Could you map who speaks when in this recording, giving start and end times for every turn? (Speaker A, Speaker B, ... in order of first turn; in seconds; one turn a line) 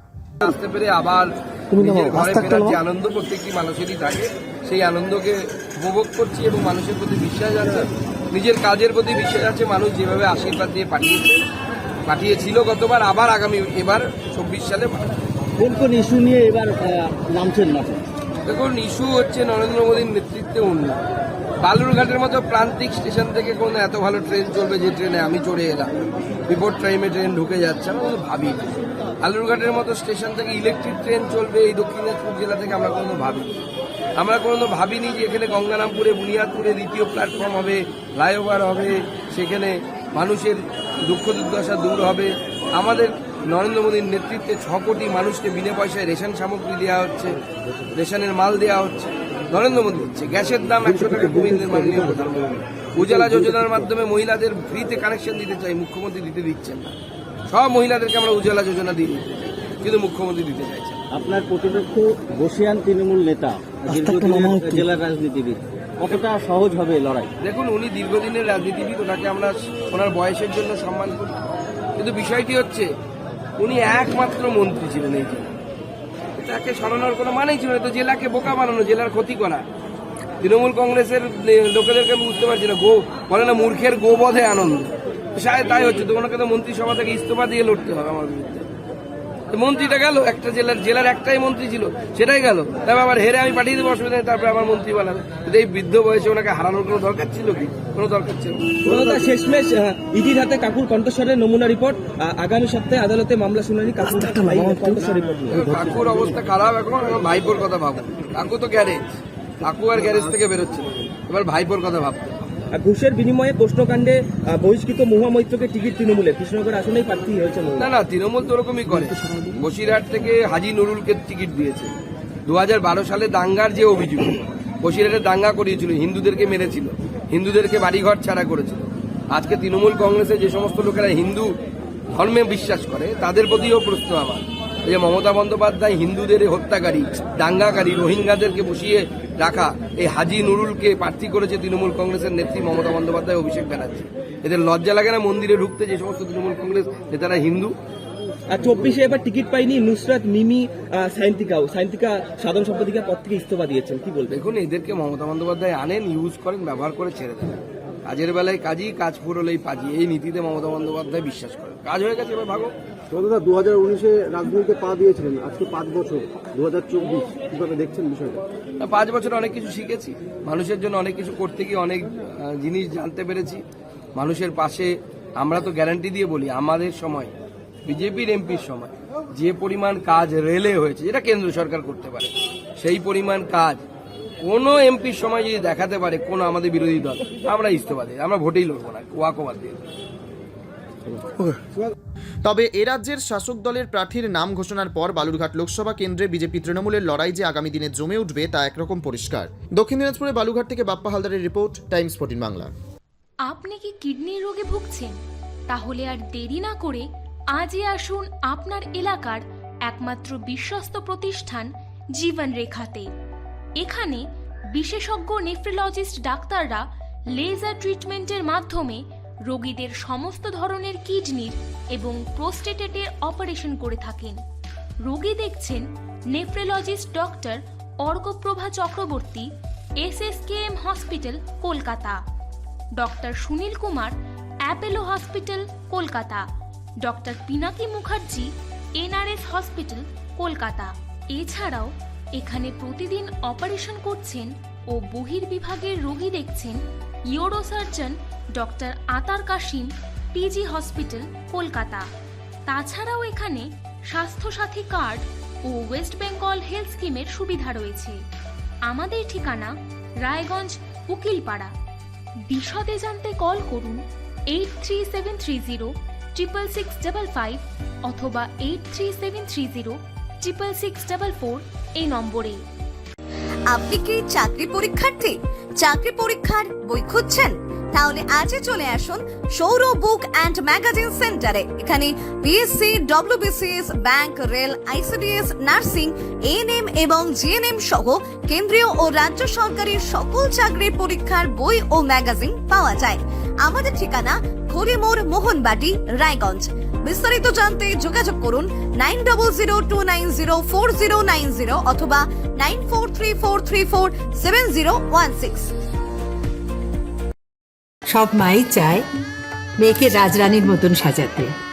Speaker A: 0.4-11.5
Speaker A: 12.1-15.2
Speaker B: 15.6-18.0
Speaker C: 17.2-18.0
Speaker A: 18.5-21.0
Speaker A: 21.6-33.6
Speaker A: 34.2-47.4
Speaker A: 48.0-56.9
Speaker C: 51.1-52.1
Speaker C: 53.0-53.8
Speaker A: 57.5-61.0
Speaker B: 61.1-67.3
Speaker C: 63.9-64.8
Speaker A: 67.4-71.4
Speaker A: 72.0-72.9
Speaker A: 73.6-75.5
Speaker A: 76.4-79.7
Speaker A: 80.4-88.7
Speaker A: 89.5-99.3
Speaker D: 98.8-106.3
Speaker A: 105.5-112.6
Speaker D: 112.7-117.9
Speaker A: 117.8-121.9
Speaker D: 118.9-119.4
Speaker A: 122.5-131.5
Speaker A: 132.1-147.8
Speaker D: 148.5-154.3
Speaker A: 154.3-162.8
Speaker C: 163.1-168.4
Speaker A: 168.8-173.6
Speaker A: 174.2-177.3
Speaker A: 177.9-183.8
Speaker A: 184.4-189.8
Speaker E: 192.4-202.7
Speaker F: 203.5-205.2
Speaker F: 205.7-213.1
Speaker F: 213.8-216.8
Speaker F: 217.3-224.4
Speaker F: 225.1-232.2
Speaker F: 233.0-234.2
Speaker F: 234.7-236.4
Speaker F: 237.0-246.8
Speaker F: 247.3-252.1
Speaker F: 252.7-258.2
Speaker F: 258.9-261.7
Speaker F: 262.5-264.0
Speaker F: 264.5-272.6
Speaker G: 273.7-305.7
Speaker H: 308.1-309.1
Speaker H: 309.8-311.6